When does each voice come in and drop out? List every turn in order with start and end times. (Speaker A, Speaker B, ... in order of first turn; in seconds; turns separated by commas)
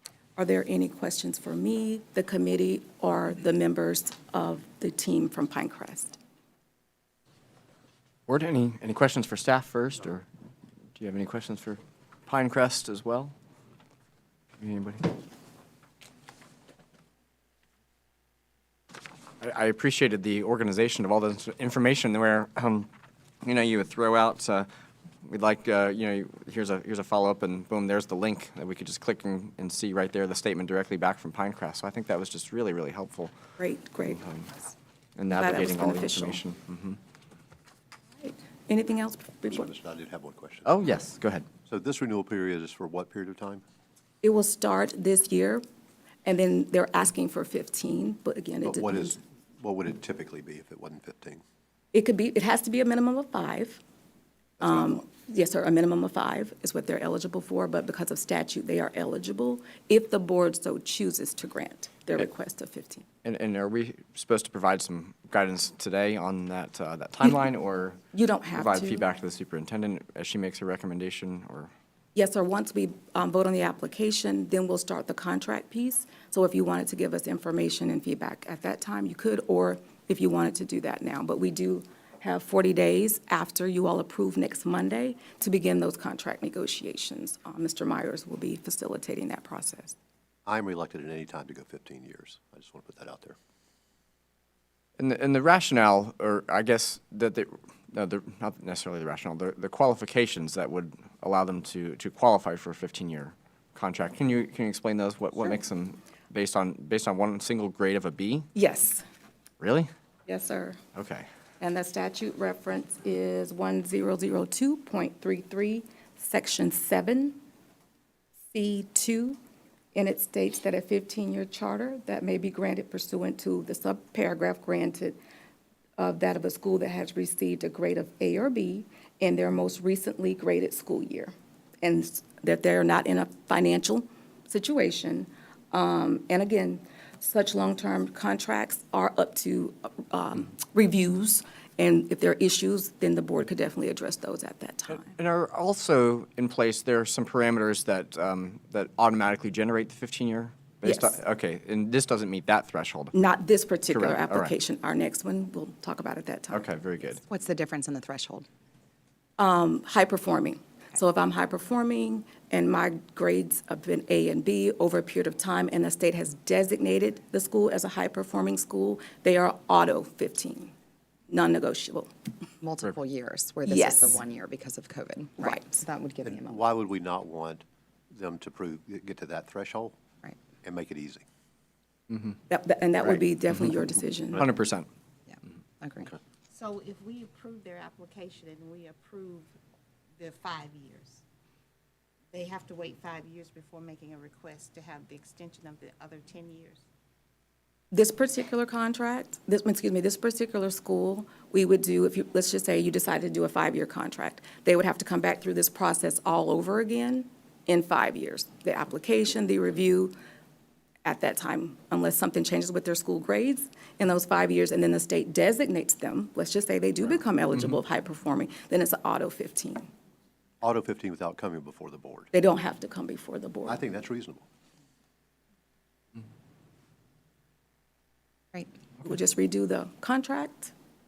Speaker A: 0.3-6.2, Speaker B: 8.3-10.3, Speaker B: 10.9-13.3, Speaker B: 14.6-15.2, Speaker B: 19.4-22.9, Speaker B: 23.4-24.7, Speaker B: 25.2-33.3, Speaker A: 33.6-34.2, Speaker B: 34.1-34.5, Speaker B: 35.2-37.0, Speaker A: 35.3-36.4, Speaker A: 38.2-39.7, Speaker C: 39.5-40.7, Speaker B: 40.6-41.5, Speaker C: 41.7-43.6, Speaker A: 44.2-45.6, Speaker A: 46.2-49.2, Speaker C: 48.6-51.4, Speaker A: 51.9-53.8, Speaker C: 54.6-55.0, Speaker A: 54.6-63.0, Speaker B: 63.2-71.7, Speaker A: 68.1-69.0, Speaker A: 72.1-90.0, Speaker C: 90.5-93.3, Speaker B: 95.0-108.5, Speaker A: 108.5-109.0, Speaker B: 109.6-109.9, Speaker A: 110.3-110.8, Speaker B: 110.9-111.3, Speaker A: 111.6-117.4, Speaker A: 118.5-119.4, Speaker A: 119.9-125.2, Speaker A: 126.0-145.2, Speaker B: 145.1-153.1, Speaker A: 150.8-151.2, Speaker A: 153.1-156.6, Speaker B: 153.9-154.5, Speaker B: 156.5-157.2, Speaker D: 157.2-158.4, Speaker A: 159.4-170.7, Speaker A: 171.3-172.1, Speaker D: 172.6-176.7, Speaker A: 173.7-174.2, Speaker C: 176.2-180.0, Speaker C: 180.6-181.2, Speaker A: 182.5-184.4, Speaker B: 184.3-184.9, Speaker D: 185.3-186.2, Speaker E: 186.5-189.5, Speaker E: 190.2-191.2, Speaker E: 192.3-196.8, Speaker A: 197.9-210.1, Speaker A: 211.0-219.8, Speaker C: 220.6-222.3, Speaker A: 222.3-223.8, Speaker C: 223.7-224.4, Speaker A: 229.0-230.7